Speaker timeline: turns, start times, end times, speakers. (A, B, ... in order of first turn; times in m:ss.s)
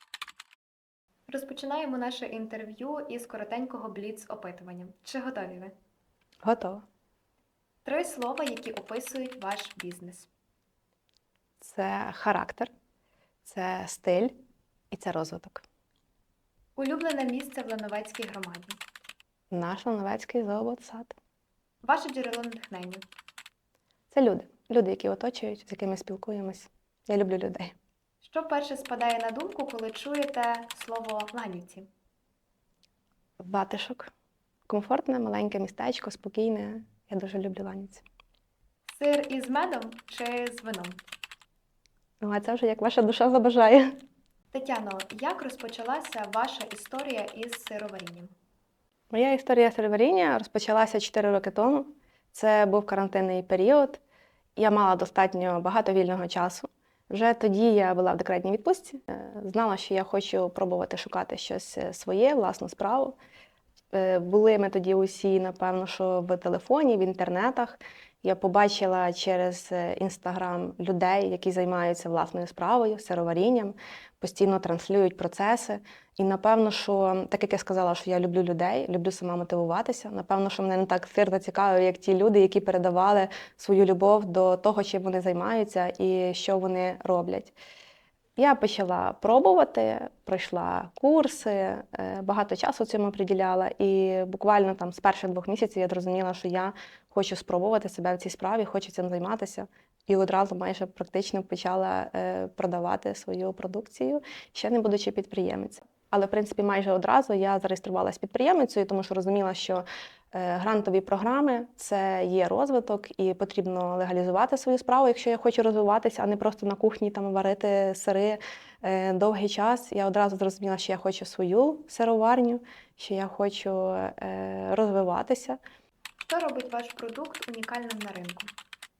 0:01.3-0:05.7 A
0:06.4-0:06.8 B
0:07.8-0:10.3 A
0:11.6-0:12.7 B
0:13.4-0:14.3 B
0:14.9-0:15.6 B
0:16.8-0:18.8 A
0:19.5-0:21.2 B
0:21.8-0:23.0 A
0:24.1-0:27.7 B
0:28.2-0:31.9 A
0:33.4-0:34.1 B
0:34.7-0:38.0 B
0:38.9-0:41.0 A
0:42.2-0:44.0 B
0:44.5-0:48.3 A
0:49.1-0:54.0 B
0:54.6-1:03.2 B
1:03.9-1:27.5 B
1:28.4-2:05.6 B
2:06.3-2:08.5 A